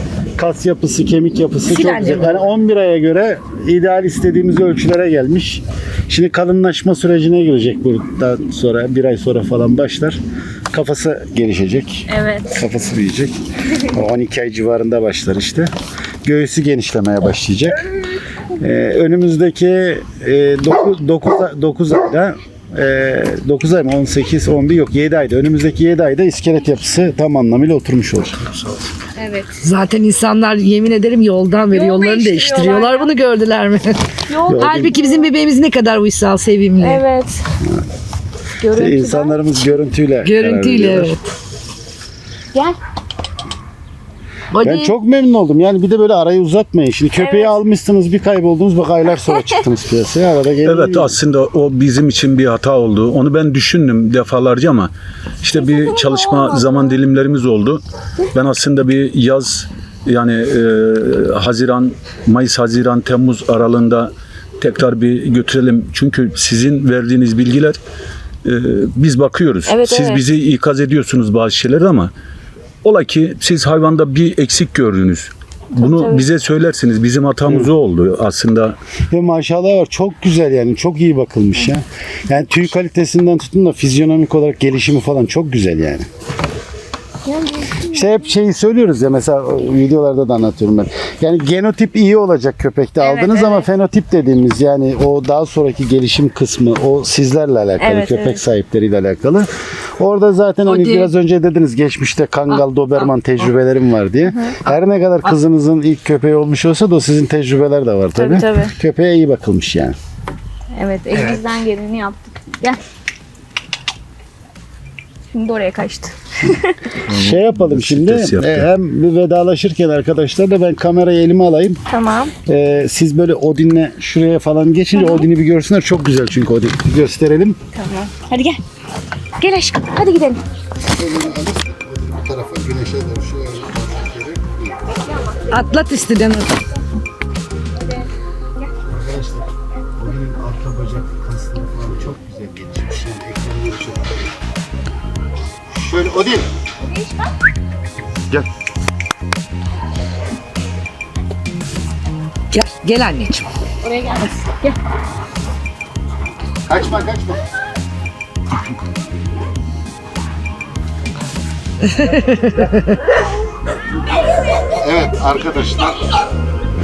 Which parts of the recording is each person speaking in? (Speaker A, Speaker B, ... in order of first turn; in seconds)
Speaker A: 0.3-10.2, 10.7-15.7, 16.2-17.8, 18.6-28.7, 34.5-34.9, 38.7-41.2, 44.6-51.1, 79.1-86.0, 87.9-99.5, 100.0-109.9, 117.1-121.8, 122.5-127.6, 130.9-134.8, 138.8-144.3, 145.7-146.5, 156.7-157.4, 164.7-166.1
Speaker B: 1.6-2.4, 29.6-34.0, 34.5-37.0, 40.2-41.3, 44.5-44.9, 100.7-101.1, 111.1-111.4, 135.5-136.6, 152.5-153.5, 161.8-163.0
Speaker C: 12.1-12.6, 29.2-29.6, 31.7-33.1, 34.3-35.3, 36.8-37.4, 38.6-39.6, 47.2-47.6, 55.6-57.0, 69.7-70.2, 75.8-76.2, 87.2-88.3, 93.0-93.7, 97.8-98.4, 104.2-104.5, 108.2-108.7, 110.7-112.8, 115.3-116.8, 121.9-122.3, 125.0-125.2, 127.7-128.6, 129.4-130.4, 146.9-147.3, 153.8-154.7
Speaker D: 50.6-57.8, 58.3-67.8, 68.4-72.1, 72.8-78.8, 117.1-118.7